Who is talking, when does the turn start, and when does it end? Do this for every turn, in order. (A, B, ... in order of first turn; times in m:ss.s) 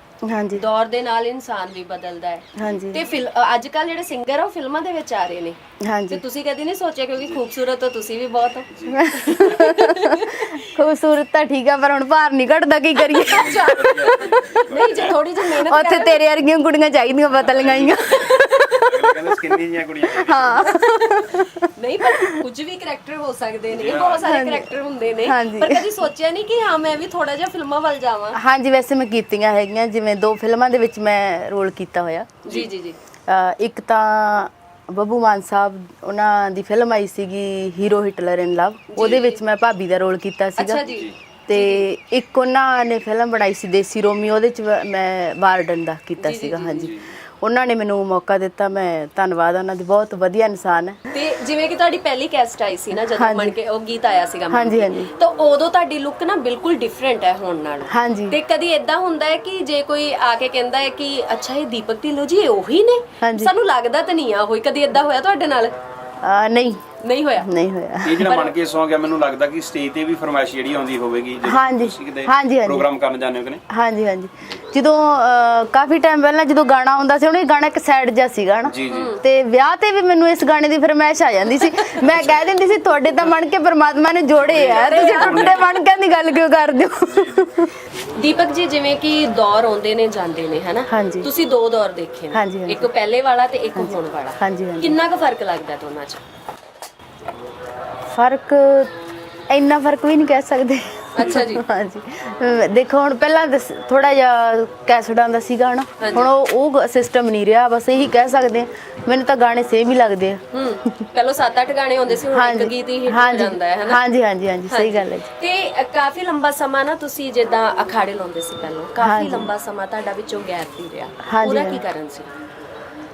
0:00.2-0:00.7 A
0:00.5-0:10.6 B
0:02.6-0:03.0 A
0:05.8-0:06.2 A
0:08.7-0:09.8 C
0:08.9-0:13.8 A
0:13.0-0:16.2 B
0:13.2-0:15.2 C
0:15.5-0:18.8 A
0:17.4-0:20.8 C
0:18.0-0:19.1 B
0:20.0-0:22.4 A
0:20.8-0:28.4 B
0:23.7-0:24.3 C
0:24.2-0:24.7 A
0:25.2-0:25.9 A
0:28.4-0:32.4 A
0:32.4-0:33.0 B
0:33.3-0:40.8 A
0:38.9-0:39.4 B
0:40.6-0:41.9 B
0:40.8-0:41.1 C
0:41.5-0:51.0 A
0:46.2-0:47.0 B
0:51.1-1:05.8 B
0:53.1-0:53.6 A
0:54.5-0:55.1 A
0:57.9-0:58.4 A
1:03.2-1:03.5 A
1:06.2-1:06.8 A
1:07.0-1:07.5 B
1:07.4-1:08.4 A
1:08.0-1:13.6 C
1:08.2-1:08.5 B
1:11.4-1:12.9 A
1:13.7-1:27.8 A
1:18.7-1:19.2 C
1:18.9-1:19.2 B
1:22.0-1:22.4 C
1:24.4-1:25.6 C
1:24.6-1:25.6 B
1:28.2-1:36.2 B
1:30.9-1:31.3 A
1:32.3-1:32.9 A
1:33.8-1:35.0 A
1:38.1-1:38.9 A
1:39.5-1:51.1 A
1:41.2-1:41.6 B
1:46.0-1:46.3 B
1:50.5-1:54.0 B
1:52.2-1:55.3 A
1:54.7-2:02.3 B
1:59.0-1:59.5 A
2:01.2-2:01.8 A